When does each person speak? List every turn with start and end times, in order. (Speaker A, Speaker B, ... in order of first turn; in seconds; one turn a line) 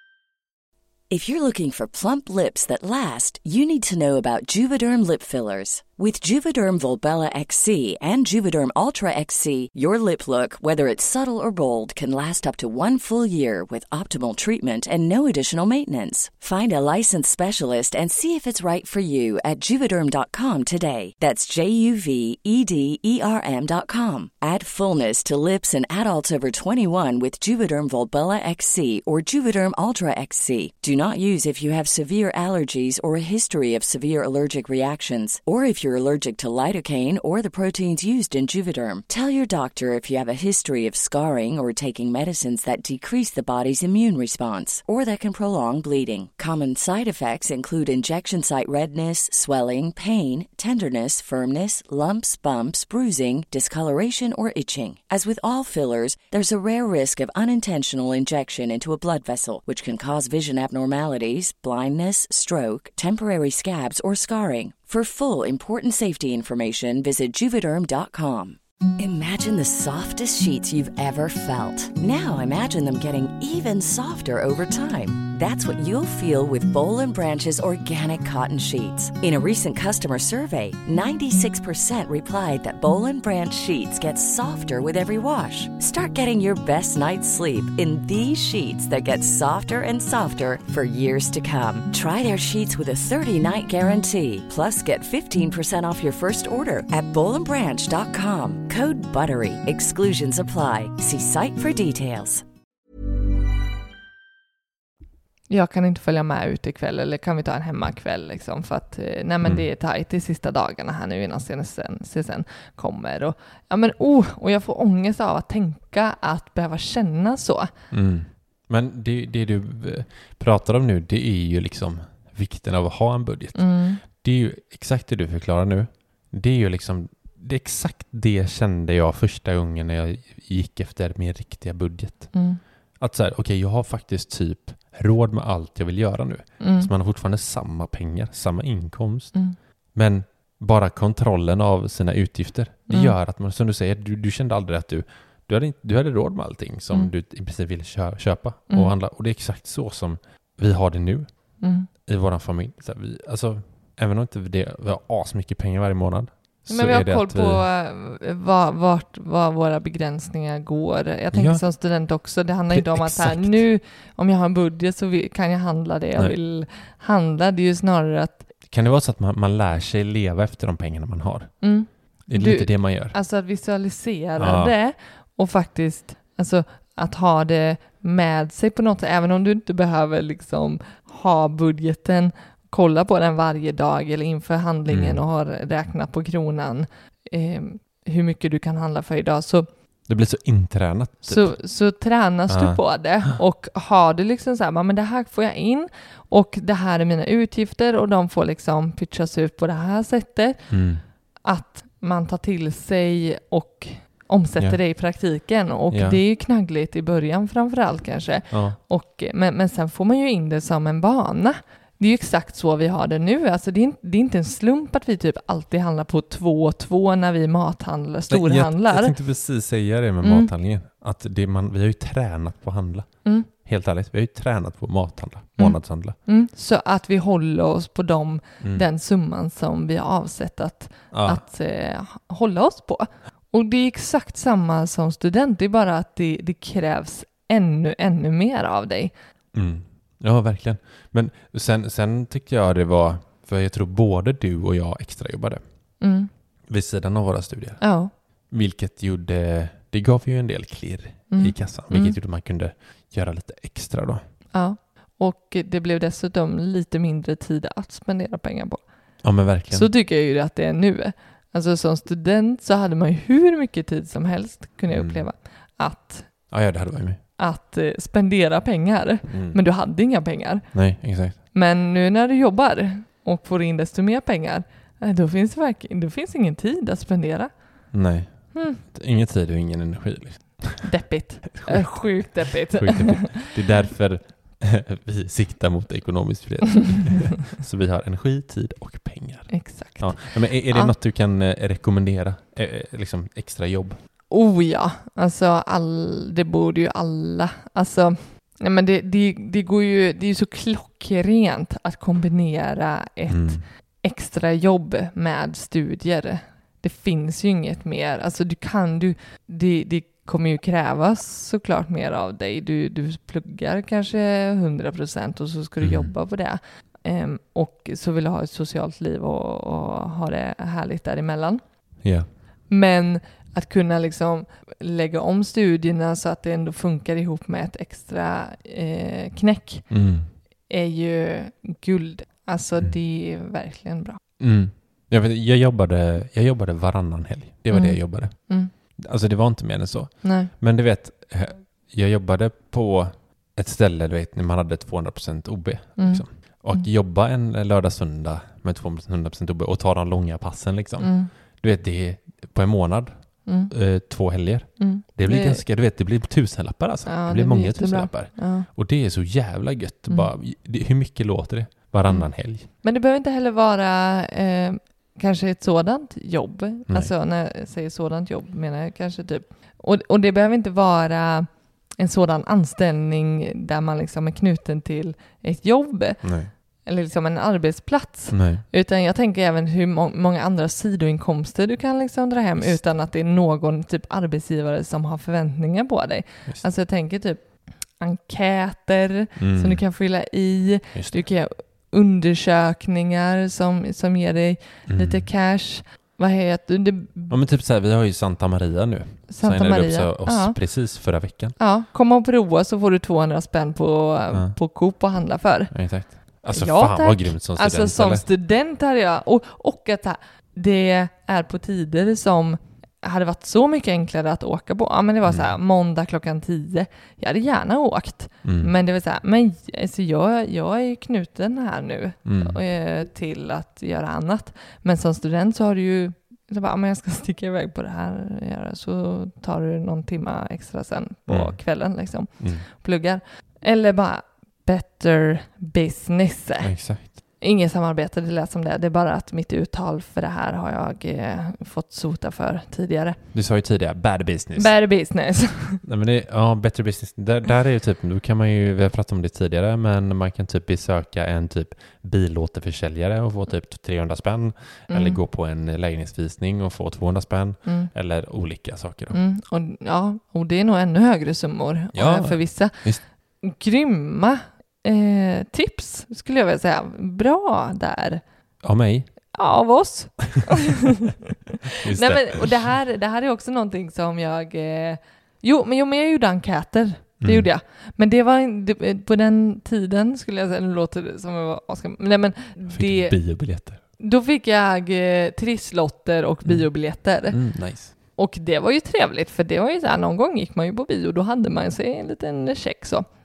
Speaker A: 1.1-102.4
Speaker B: 105.5-117.7
Speaker C: 117.9-157.7
Speaker B: 123.5-124.0
Speaker B: 132.3-132.6
Speaker B: 136.6-136.9
Speaker B: 142.9-143.2
Speaker B: 151.6-151.9
Speaker B: 156.7-168.5
Speaker C: 161.3-163.7
Speaker C: 168.6-173.2
Speaker B: 171.6-189.7
Speaker C: 174.4-174.8
Speaker C: 184.9-185.2
Speaker C: 190.1-191.7
Speaker B: 191.2-200.8
Speaker C: 192.5-193.4
Speaker C: 200.7-201.0
Speaker B: 201.4-219.2
Speaker C: 204.6-205.2
Speaker C: 205.9-206.2
Speaker C: 208.5-208.8
Speaker C: 218.3-226.2
Speaker B: 220.2-220.5
Speaker B: 225.6-239.1
Speaker C: 228.6-228.8
Speaker C: 231.1-231.4
Speaker C: 239.5-246.0
Speaker B: 246.0-246.3
Speaker C: 246.7-254.3
Speaker B: 247.8-248.1
Speaker B: 251.3-252.2
Speaker B: 254.5-266.5
Speaker C: 259.2-259.9
Speaker C: 264.9-265.3
Speaker C: 266.5-267.2
Speaker B: 267.4-278.8
Speaker C: 269.3-269.6
Speaker C: 270.7-271.4
Speaker C: 277.9-294.0
Speaker B: 280.8-283.4
Speaker B: 289.5-290.9
Speaker B: 294.3-322.1
Speaker C: 303.3-303.6
Speaker C: 315.8-316.1
Speaker C: 322.0-322.3
Speaker B: 322.7-334.2
Speaker C: 329.9-330.3
Speaker C: 334.4-362.7
Speaker B: 337.7-338.7
Speaker B: 340.2-340.5
Speaker B: 346.0-346.9
Speaker B: 351.0-351.3
Speaker B: 353.4-353.7
Speaker B: 354.8-355.6
Speaker B: 357.1-358.7
Speaker B: 362.1-397.4
Speaker C: 366.9-367.1
Speaker C: 376.2-376.5
Speaker C: 378.3-378.6
Speaker C: 382.6-382.9
Speaker C: 389.4-389.9
Speaker C: 390.9-391.3
Speaker C: 394.9-395.3
Speaker C: 397.3-401.6
Speaker B: 399.3-443.2
Speaker C: 404.3-404.6
Speaker C: 405.7-408.3
Speaker C: 415.2-415.6
Speaker C: 418.4-418.7
Speaker C: 422.2-422.6
Speaker C: 431.3-432.7
Speaker C: 436.6-437.2
Speaker C: 443.3-444.9
Speaker B: 444.6-445.8
Speaker C: 445.8-459.2
Speaker B: 454.9-455.2
Speaker B: 457.6-457.9
Speaker B: 459.1-468.2
Speaker C: 461.9-463.1
Speaker C: 468.6-469.4
Speaker B: 469.3-470.6
Speaker C: 471.8-472.7
Speaker B: 471.9-493.1
Speaker C: 477.2-477.5
Speaker C: 482.7-483.9
Speaker C: 486.4-487.9